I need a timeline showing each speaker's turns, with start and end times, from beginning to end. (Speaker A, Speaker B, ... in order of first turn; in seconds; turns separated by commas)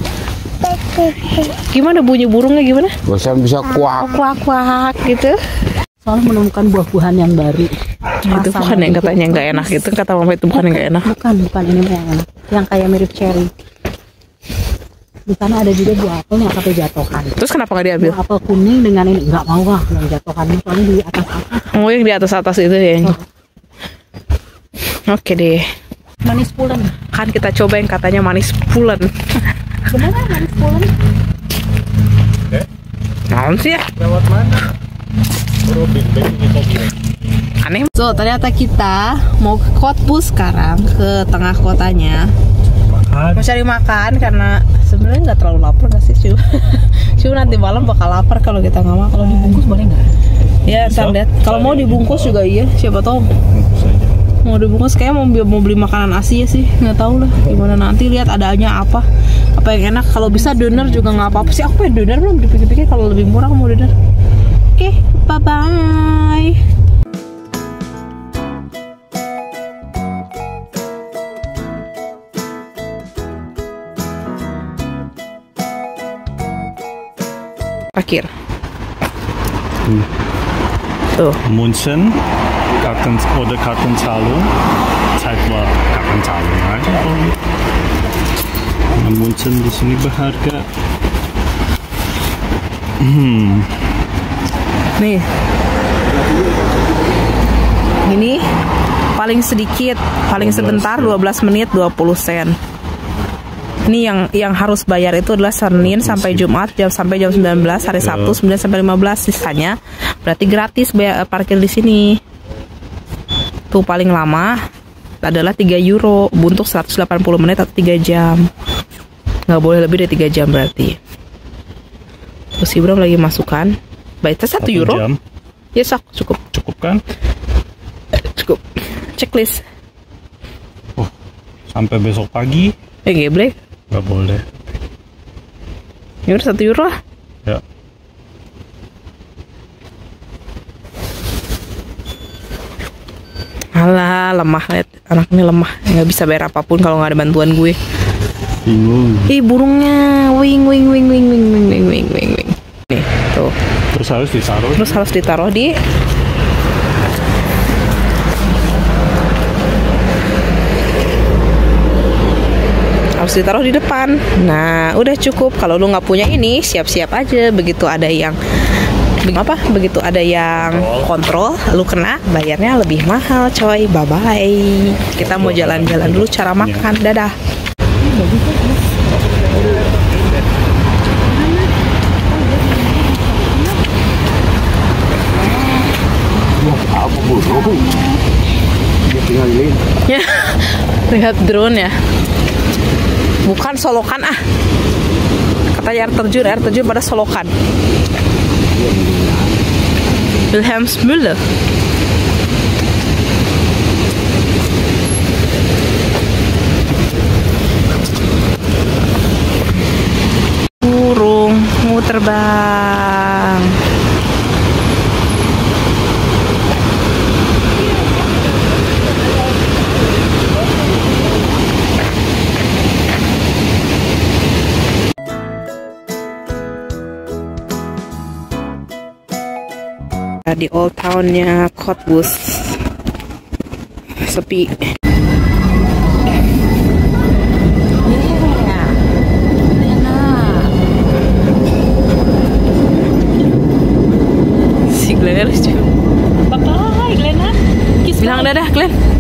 Speaker A: 0.7-2.9, Speaker B: 3.0-4.1, Speaker A: 3.9-5.4, Speaker C: 6.0-9.8, Speaker A: 8.3-11.1, Speaker C: 10.5-13.5, Speaker C: 15.3-17.4, Speaker A: 17.4-18.2, Speaker C: 18.0-21.7, Speaker A: 21.7-23.2, Speaker A: 25.1-25.6, Speaker C: 26.2-27.0, Speaker A: 27.1-29.1, Speaker C: 29.9-31.0, Speaker A: 33.3-33.9, Speaker D: 34.0-34.7, Speaker D: 35.6-36.9, Speaker A: 37.6-42.3, Speaker D: 42.8-43.5, Speaker A: 43.4-49.6, Speaker D: 47.2-47.9, Speaker C: 49.2-50.1, Speaker A: 50.6-53.3, Speaker D: 50.7-52.4, Speaker D: 53.5-54.1, Speaker A: 54.4-59.0, Speaker A: 59.6-63.9, Speaker A: 64.8-66.6, Speaker A: 78.0-78.3, Speaker D: 81.5-82.2, Speaker D: 82.8-84.5, Speaker D: 85.2-87.4, Speaker D: 88.9-90.7, Speaker D: 93.0-93.7, Speaker A: 95.0-95.2, Speaker B: 96.1-97.0, Speaker A: 98.0-98.4, Speaker A: 99.2-102.6, Speaker D: 100.3-101.2, Speaker A: 103.8-112.2, Speaker D: 105.8-106.5, Speaker D: 108.0-108.4, Speaker A: 113.7-114.6, Speaker A: 115.2-118.5, Speaker A: 119.5-121.0, Speaker A: 122.6-125.0, Speaker D: 124.6-125.2, Speaker A: 125.8-126.4, Speaker D: 126.5-127.0, Speaker A: 128.2-129.6, Speaker D: 131.7-132.8, Speaker A: 133.1-133.6, Speaker D: 133.9-134.5, Speaker A: 136.3-136.9, Speaker A: 143.8-147.8, Speaker D: 148.7-149.3, Speaker A: 149.3-153.5, Speaker D: 153.9-155.0, Speaker A: 154.8-155.7, Speaker A: 163.2-168.4, Speaker A: 169.2-177.3, Speaker D: 170.6-171.1, Speaker D: 175.2-176.9, Speaker C: 178.0-179.8, Speaker C: 181.2-181.7, Speaker C: 182.3-183.8, Speaker C: 185.3-185.9, Speaker B: 186.5-187.9, Speaker C: 187.3-188.2, Speaker B: 189.1-189.8, Speaker A: 190.1-191.9, Speaker A: 193.4-194.4, Speaker A: 195.7-197.5, Speaker B: 198.7-199.6, Speaker A: 200.5-201.4, Speaker A: 210.8-213.8, Speaker A: 230.5-232.8, Speaker A: 234.2-234.8, Speaker C: 238.1-239.0, Speaker C: 239.7-240.7, Speaker A: 244.9-245.9, Speaker C: 246.5-248.5, Speaker A: 248.2-248.9